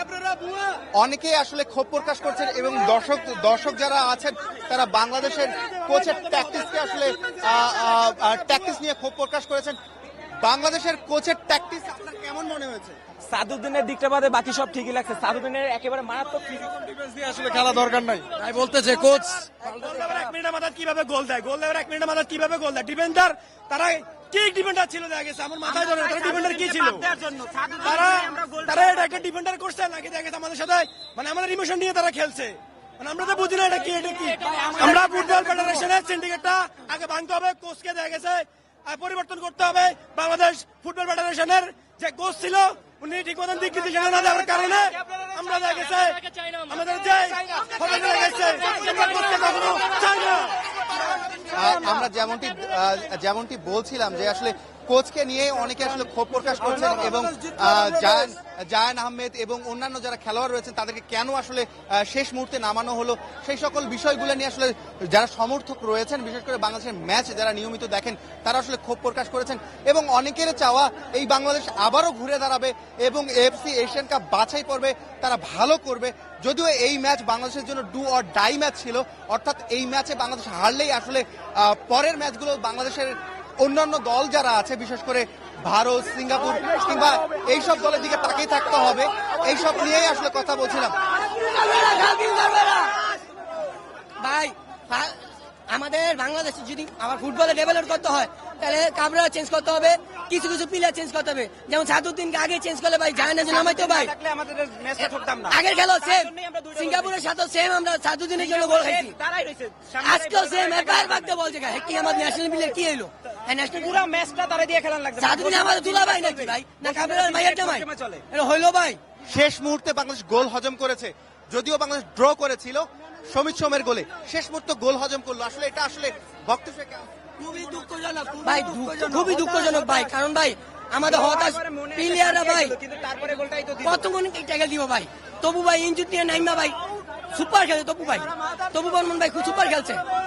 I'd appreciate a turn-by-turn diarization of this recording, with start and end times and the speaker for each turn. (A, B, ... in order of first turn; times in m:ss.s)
0:01.0-0:09.8 A
0:10.4-0:13.0 A
0:13.3-0:16.9 B
0:17.3-0:19.5 C
0:18.9-0:27.1 D
0:25.7-0:29.0 B
0:27.8-0:50.5 D
0:51.5-1:30.9 A
1:31.2-1:32.9 E
1:34.2-1:35.1 E
1:35.7-1:44.1 E
1:43.4-1:47.2 B
1:45.0-1:49.2 E
1:48.4-1:51.3 B
1:50.0-1:53.8 E
1:53.6-1:58.2 B
1:55.2-1:59.0 E
1:59.3-2:07.1 A
2:07.7-2:10.0 B
2:08.4-2:12.8 E
2:11.1-2:14.1 B
2:13.8-2:16.8 E
2:17.3-2:20.0 E